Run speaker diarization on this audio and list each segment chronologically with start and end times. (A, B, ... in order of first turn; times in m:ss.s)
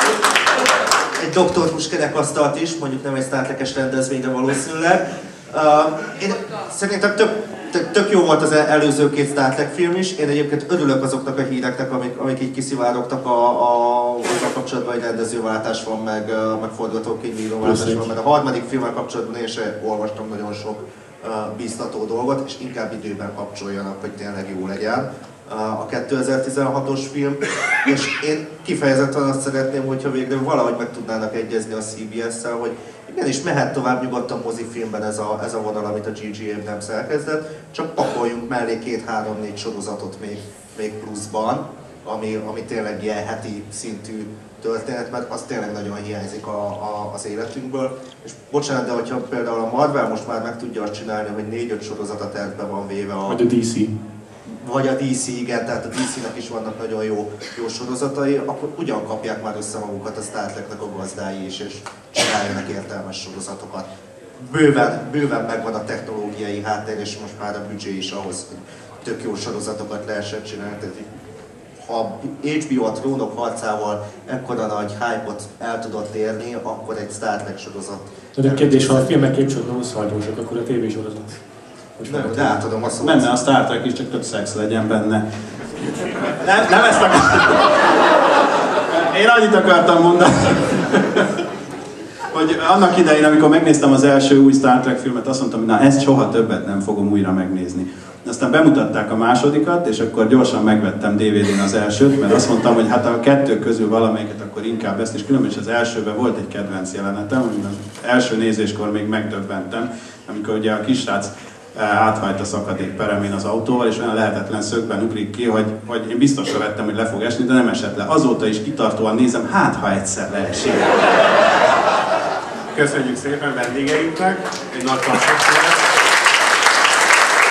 0:01.2-0:53.4 A
0:17.6-0:17.9 B
0:53.2-0:53.9 C
0:54.5-1:03.8 A
1:04.4-1:11.1 A
1:11.8-1:19.1 A
1:18.4-1:21.4 C
1:22.0-1:22.6 C
1:22.0-1:23.3 A
1:22.9-1:25.2 B
1:25.8-1:28.1 B
1:28.9-1:31.3 B
1:32.3-2:00.9 B
2:02.7-2:05.8 D